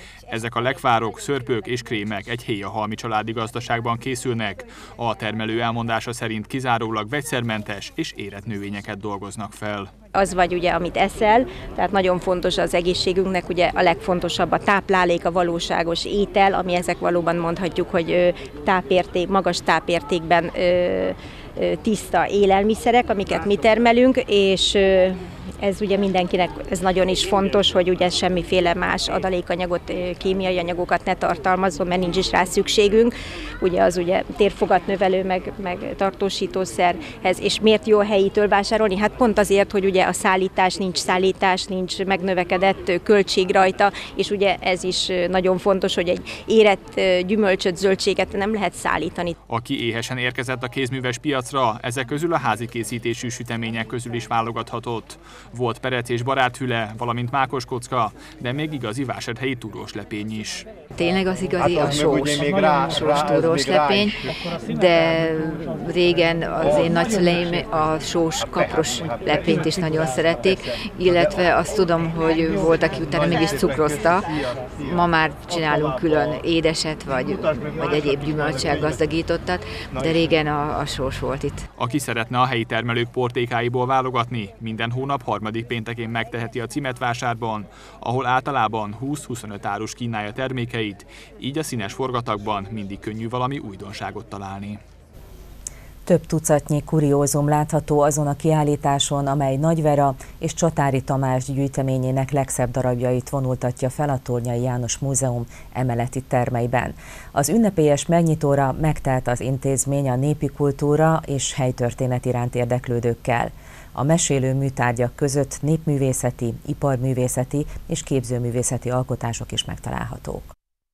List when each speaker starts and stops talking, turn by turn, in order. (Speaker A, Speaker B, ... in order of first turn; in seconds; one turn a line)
Speaker A: 0.3-9.9
Speaker B: 10.1-49.4
Speaker A: 49.5-60.7
Speaker C: 61.0-81.6
Speaker A: 81.8-94.8
Speaker D: 96.1-120.5